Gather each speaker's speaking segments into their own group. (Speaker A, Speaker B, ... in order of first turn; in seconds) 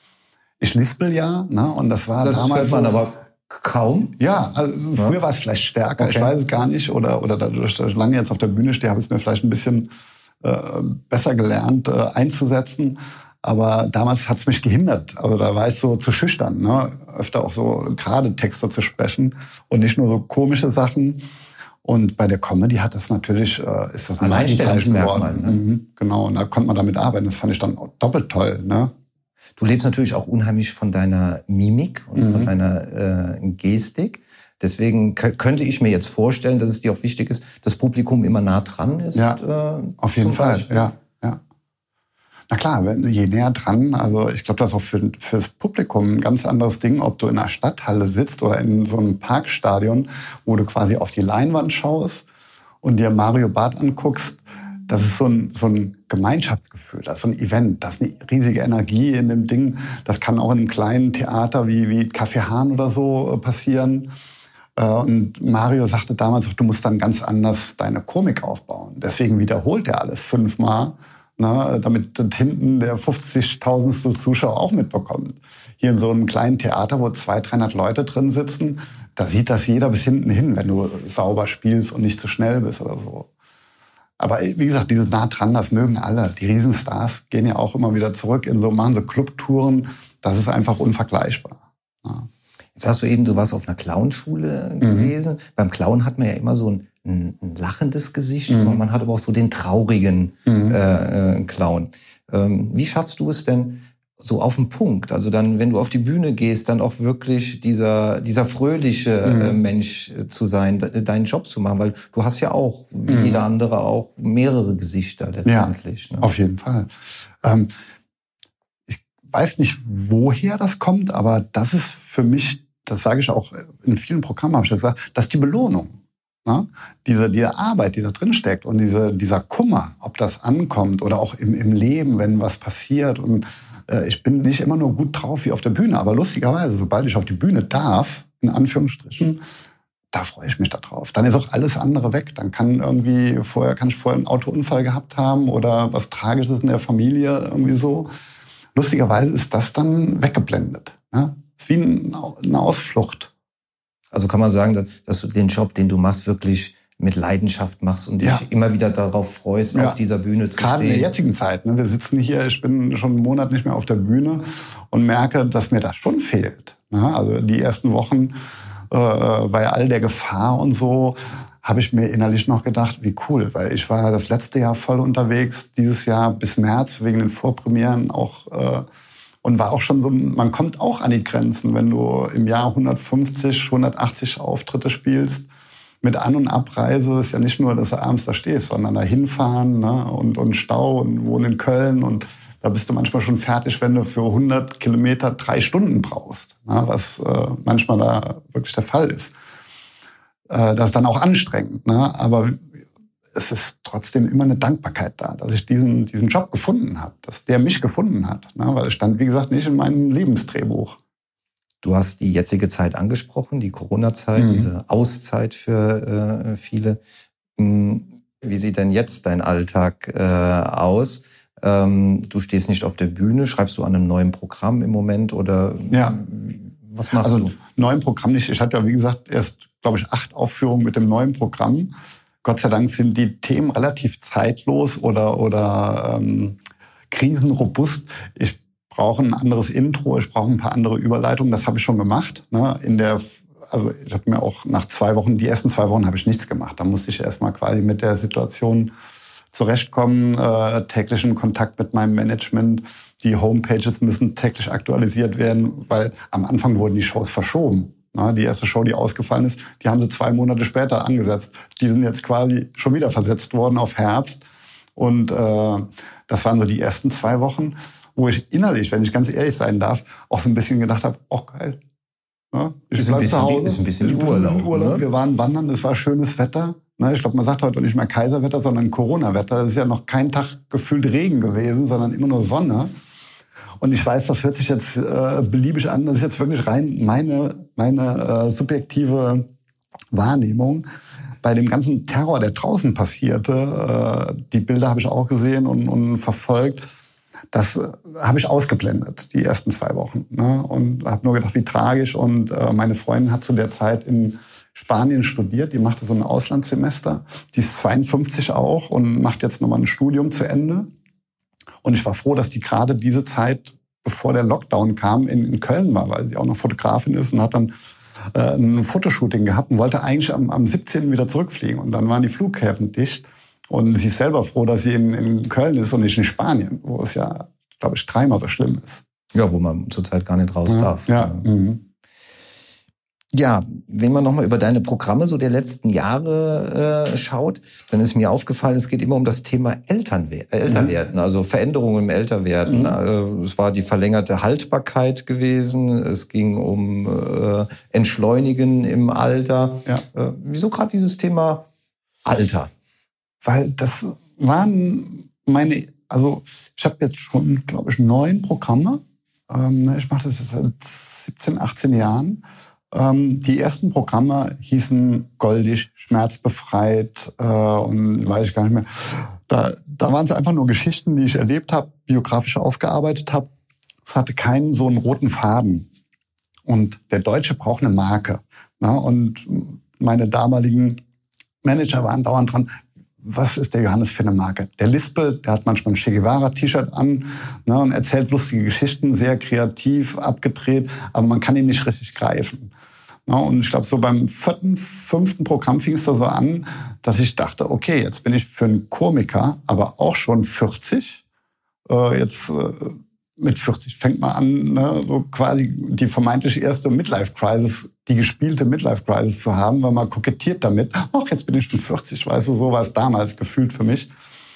Speaker A: 0.6-3.0, 4.2-9.9, 10.4-21.2, 21.8-28.9, 32.1-32.5, 40.0-41.4, 42.5-52.2, 52.8-64.1, 64.8-83.3, 84.2-92.3, 94.8-95.1, 98.5-98.8, 100.5-100.8, 109.2-109.6, 113.1-113.5, 115.5-116.9, 117.4-117.7, 118.9-139.4, 140.1-148.1, 148.8-153.3, 159.7-160.0, 160.6-168.4, 168.9-178.9, 179.4-185.5, 186.0-199.3, 200.5-202.7, 203.3-211.0, 214.4-214.7, 225.9-226.2, 227.2-231.9, 232.4-236.6, 237.1-248.9, 249.5-264.4, 265.0-271.8, 272.5-282.9, 283.8-289.5, 290.1-290.9, 291.4-296.8, 297.5-310.9, 311.8-317.7, 318.3-329.0, 330.7-331.8, 340.6-340.9, 342.6-343.0, 353.4-373.5, 374.0-375.9, 376.6-381.0, 381.6-392.7, 393.2-401.2, 401.9-414.1
Speaker B: 2.2-4.2, 6.0-6.3, 24.2-25.6, 29.6-40.9, 92.8-116.3, 154.1-161.1, 211.8-217.0, 217.6-227.6, 272.9-275.0, 329.3-331.5, 333.3-351.7, 352.2-352.7